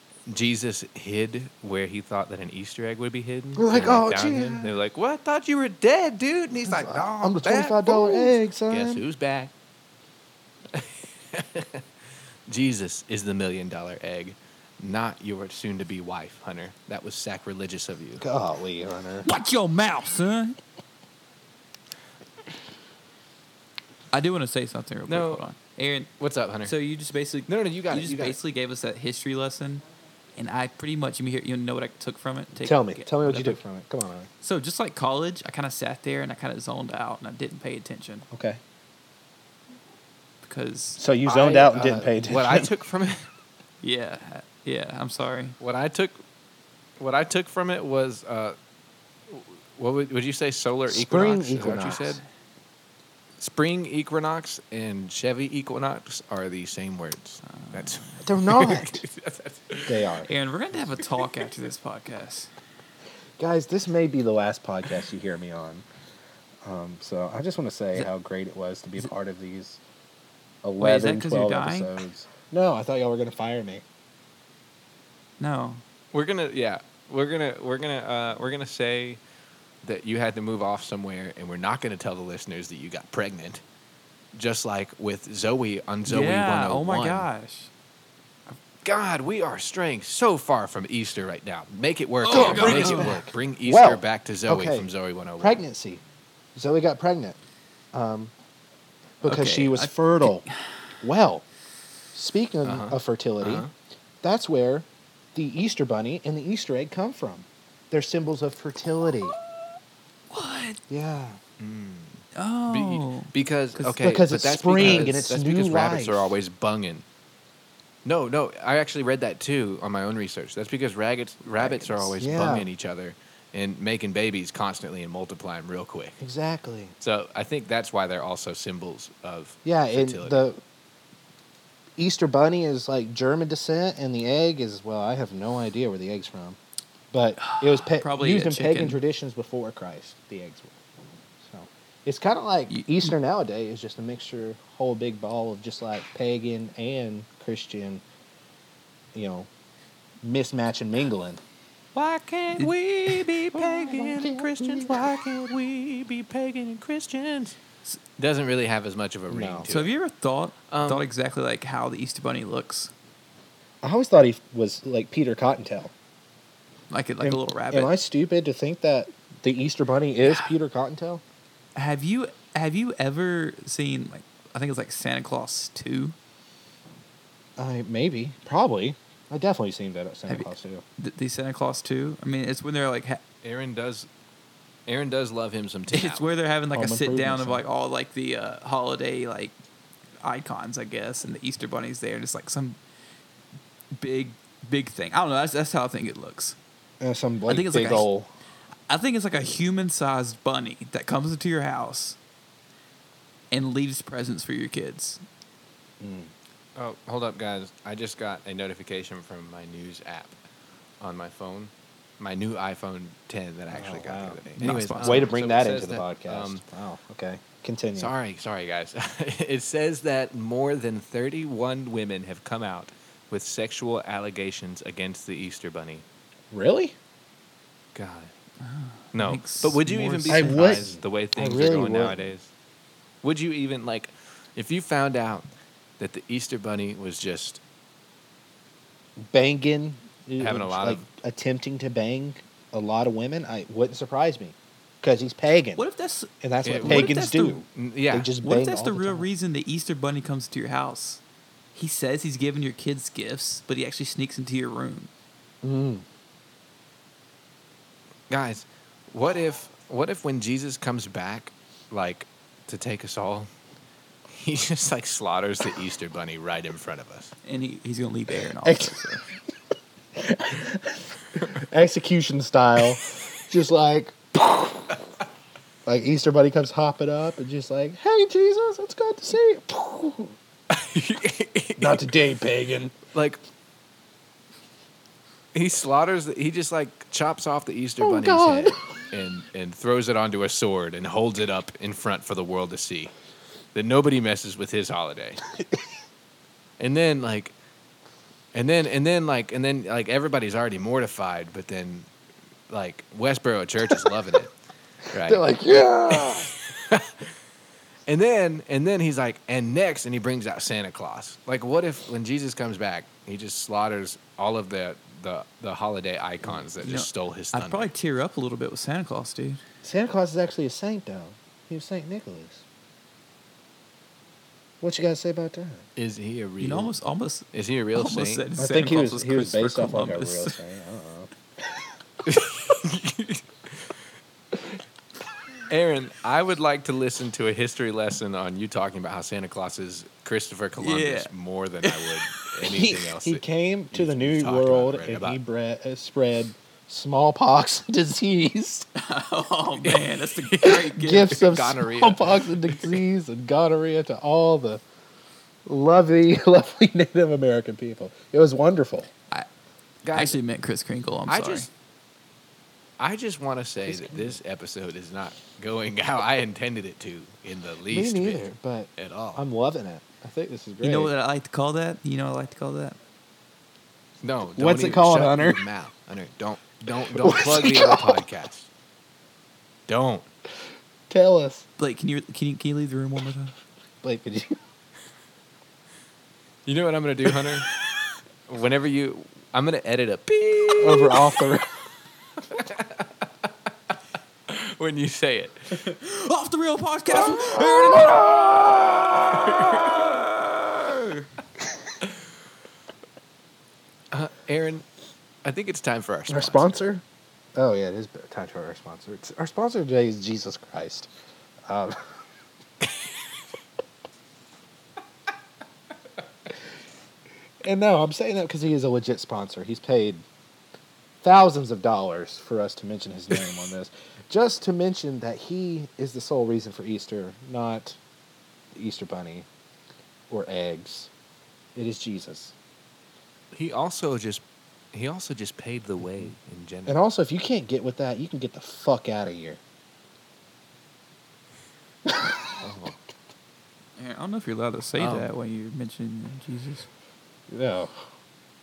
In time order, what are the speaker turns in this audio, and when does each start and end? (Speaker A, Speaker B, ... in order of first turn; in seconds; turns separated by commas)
Speaker A: 0.3-9.5, Speaker B: 3.5-4.7, Speaker B: 6.7-9.0, Speaker A: 10.7-11.9, Speaker A: 12.5-18.2, Speaker B: 18.2-19.3, Speaker C: 19.2-20.6, Speaker C: 24.1-26.1, Speaker A: 25.1-25.4, Speaker A: 26.2-26.7, Speaker C: 26.6-29.8, Speaker A: 27.5-28.4, Speaker C: 30.4-33.6, Speaker B: 32.6-34.3, Speaker C: 34.4-38.3, Speaker B: 38.3-38.6, Speaker C: 40.4-41.0, Speaker B: 41.0-42.7, Speaker A: 41.2-43.3, Speaker C: 43.8-45.6, Speaker A: 45.6-46.2, Speaker A: 47.0-48.5, Speaker A: 49.3-52.2, Speaker B: 50.9-52.2, Speaker A: 53.4-60.1, Speaker C: 57.5-58.2, Speaker B: 58.2-59.0, Speaker B: 59.9-60.3, Speaker C: 60.2-62.5, Speaker A: 61.0-61.5, Speaker B: 63.4-65.8, Speaker B: 66.6-69.8, Speaker B: 70.6-73.8, Speaker C: 70.8-72.0, Speaker C: 75.4-75.8, Speaker A: 76.1-79.2, Speaker A: 79.8-83.6, Speaker A: 84.3-87.3, Speaker C: 86.1-87.7, Speaker A: 88.8-95.6, Speaker C: 92.2-93.2, Speaker B: 92.3-96.0, Speaker B: 96.5-97.4, Speaker B: 97.9-98.3, Speaker B: 99.2-100.5, Speaker C: 99.2-100.7, Speaker B: 101.0-101.4, Speaker B: 102.1-103.7, Speaker A: 102.6-103.7, Speaker B: 104.2-109.3, Speaker C: 110.3-110.8, Speaker B: 110.9-111.4, Speaker A: 111.6-117.0, Speaker C: 112.3-114.0, Speaker B: 113.9-116.3, Speaker C: 114.8-115.1, Speaker A: 118.0-126.2, Speaker C: 121.6-122.1, Speaker B: 122.2-122.7, Speaker B: 126.2-126.9, Speaker A: 127.0-130.4, Speaker B: 129.6-130.6, Speaker B: 132.0-136.6, Speaker B: 137.1-140.8, Speaker C: 137.4-139.0, Speaker B: 141.4-148.0, Speaker C: 142.7-143.1, Speaker B: 149.1-149.5, Speaker B: 150.2-151.4, Speaker A: 151.9-157.6, Speaker C: 152.6-153.2, Speaker B: 153.5-155.0, Speaker A: 158.2-159.9, Speaker B: 159.3-159.7, Speaker C: 159.7-162.9, Speaker A: 160.7-161.1, Speaker B: 163.8-165.9, Speaker C: 166.9-167.9, Speaker B: 167.2-171.2, Speaker C: 170.2-170.5, Speaker C: 171.7-176.2, Speaker B: 177.6-180.8, Speaker C: 180.3-183.2, Speaker A: 183.4-184.1, Speaker A: 184.9-186.2, Speaker C: 185.9-189.5, Speaker B: 186.7-187.6, Speaker C: 190.2-192.8, Speaker C: 194.0-196.6, Speaker B: 197.0-198.3, Speaker C: 197.5-198.1, Speaker C: 198.9-202.2, Speaker C: 203.5-205.2, Speaker B: 206.0-206.3, Speaker A: 206.8-210.4, Speaker A: 211.0-216.6, Speaker B: 213.7-218.1, Speaker C: 214.6-215.3, Speaker A: 217.9-226.0, Speaker B: 226.5-226.9, Speaker A: 227.9-228.3, Speaker C: 228.6-230.8, Speaker A: 229.1-232.5, Speaker B: 230.3-232.3, Speaker A: 233.2-235.5, Speaker A: 236.0-237.6, Speaker B: 239.2-245.8, Speaker A: 240.4-241.0, Speaker C: 245.8-247.6, Speaker B: 246.4-249.3, Speaker A: 246.6-248.3, Speaker C: 248.4-251.2, Speaker C: 251.7-255.1, Speaker B: 255.6-256.0, Speaker A: 258.3-263.5, Speaker A: 264.3-267.3, Speaker C: 267.4-269.2, Speaker B: 268.6-269.2, Speaker B: 270.1-274.9, Speaker B: 275.9-280.3, Speaker A: 280.7-282.1, Speaker B: 281.8-282.9, Speaker A: 283.1-283.4, Speaker A: 285.5-293.1, Speaker B: 288.0-288.8, Speaker A: 293.7-295.4, Speaker A: 296.8-297.5, Speaker A: 298.5-302.1, Speaker A: 302.7-304.5, Speaker B: 305.1-306.5, Speaker A: 305.1-305.5, Speaker A: 306.1-307.3, Speaker A: 308.1-317.9, Speaker C: 316.8-319.6, Speaker B: 319.8-322.6, Speaker B: 324.8-325.9, Speaker A: 325.9-326.9, Speaker C: 326.6-330.6, Speaker A: 327.5-328.4, Speaker B: 328.6-331.3, Speaker A: 332.2-334.0, Speaker A: 335.7-345.4, Speaker C: 340.8-341.3, Speaker C: 341.8-342.2, Speaker B: 342.6-348.9, Speaker C: 348.9-351.4, Speaker A: 349.8-353.0, Speaker B: 350.6-354.8, Speaker B: 355.6-359.1, Speaker A: 360.0-360.4, Speaker C: 360.1-361.7, Speaker A: 361.3-361.7, Speaker A: 363.0-369.4, Speaker B: 363.9-364.4, Speaker B: 367.9-371.1, Speaker C: 370.8-373.0, Speaker A: 374.2-378.7, Speaker B: 374.6-375.6, Speaker B: 377.1-378.2, Speaker A: 379.9-380.3, Speaker B: 381.1-381.6, Speaker C: 381.8-383.5, Speaker B: 384.0-384.6, Speaker A: 386.6-387.7, Speaker A: 388.5-391.4, Speaker B: 390.8-391.7, Speaker A: 392.5-393.5, Speaker A: 394.5-395.8, Speaker C: 395.7-401.3, Speaker A: 397.2-398.3, Speaker A: 399.3-400.1, Speaker A: 404.1-404.8, Speaker A: 405.4-406.7, Speaker B: 406.3-407.0, Speaker B: 407.5-411.1, Speaker B: 411.7-412.1, Speaker B: 417.6-420.2, Speaker B: 421.2-428.0, Speaker B: 428.7-429.5, Speaker B: 430.3-431.1, Speaker B: 431.8-432.5, Speaker A: 433.5-437.0, Speaker B: 436.9-439.6, Speaker B: 442.1-442.9, Speaker C: 444.0-446.9, Speaker A: 445.0-445.3, Speaker B: 447.5-448.1